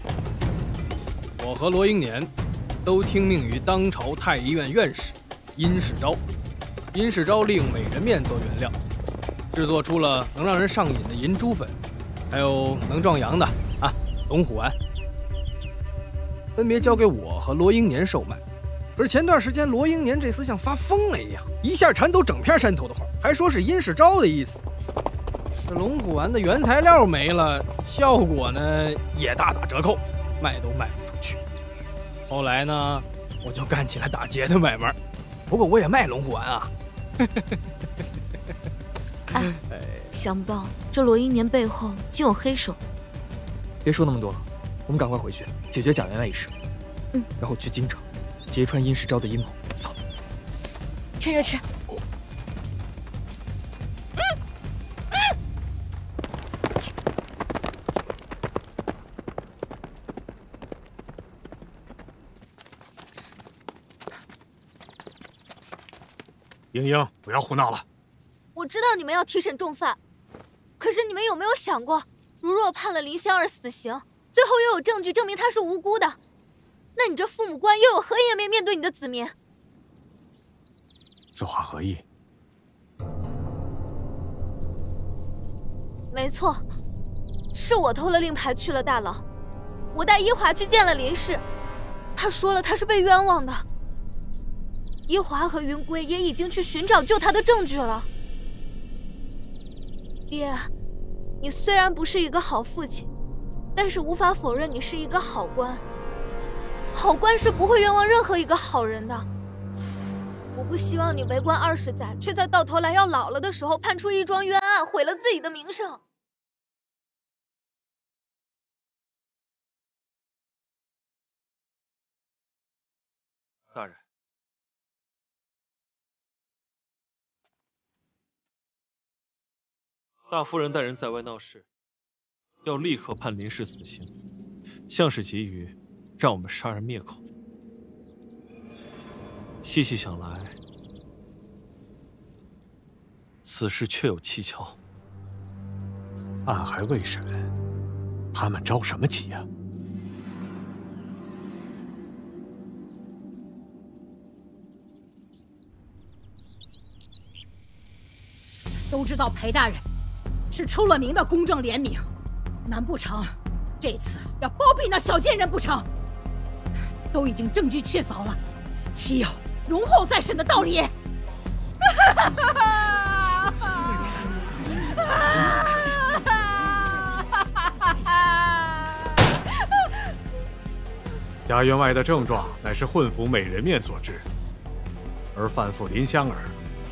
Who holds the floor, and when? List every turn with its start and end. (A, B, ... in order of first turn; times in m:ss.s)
0:01.4-0:02.3 A
0:02.8-0:06.2 A
0:06.9-0:08.7 A
0:09.5-0:11.8 A
0:12.3-0:14.7 A
0:16.6-0:18.4 A
0:19.0-0:24.7 A
0:25.5-0:31.4 A
0:32.3-0:35.0 A
0:35.5-0:37.5 A
0:39.4-0:40.1 A
0:40.1-0:42.8 B
0:43.8-0:46.5 C
0:47.4-0:50.0 C
0:51.2-0:51.6 B
1:06.7-1:07.8 D
1:08.6-1:10.0 E
1:10.8-1:16.2 E
1:17.0-1:19.3 E
1:21.3-1:22.0 D
1:26.1-1:26.6 E
1:27.5-1:29.2 E
1:29.9-1:31.4 E
1:32.2-1:33.7 E
1:35.1-1:38.1 E
1:40.3-1:40.7 E
1:41.4-1:43.1 E
1:43.8-1:45.8 E
1:46.9-1:49.3 E
1:50.6-1:56.0 E
2:03.7-2:04.0 F
2:10.3-2:11.7 F
2:12.6-2:14.1 F
2:14.9-2:17.2 F
2:19.6-2:20.6 F
2:23.4-2:24.8 F
2:26.4-2:27.5 D
2:28.3-2:29.5 D
2:38.9-2:39.8 G
2:40.5-2:42.1 G
2:42.7-2:45.9 G
2:47.1-2:48.4 G
2:48.9-2:50.9 G
2:52.6-2:53.3 G
2:55.1-2:55.9 G
3:01.4-3:04.2 D
3:05.3-3:06.6 D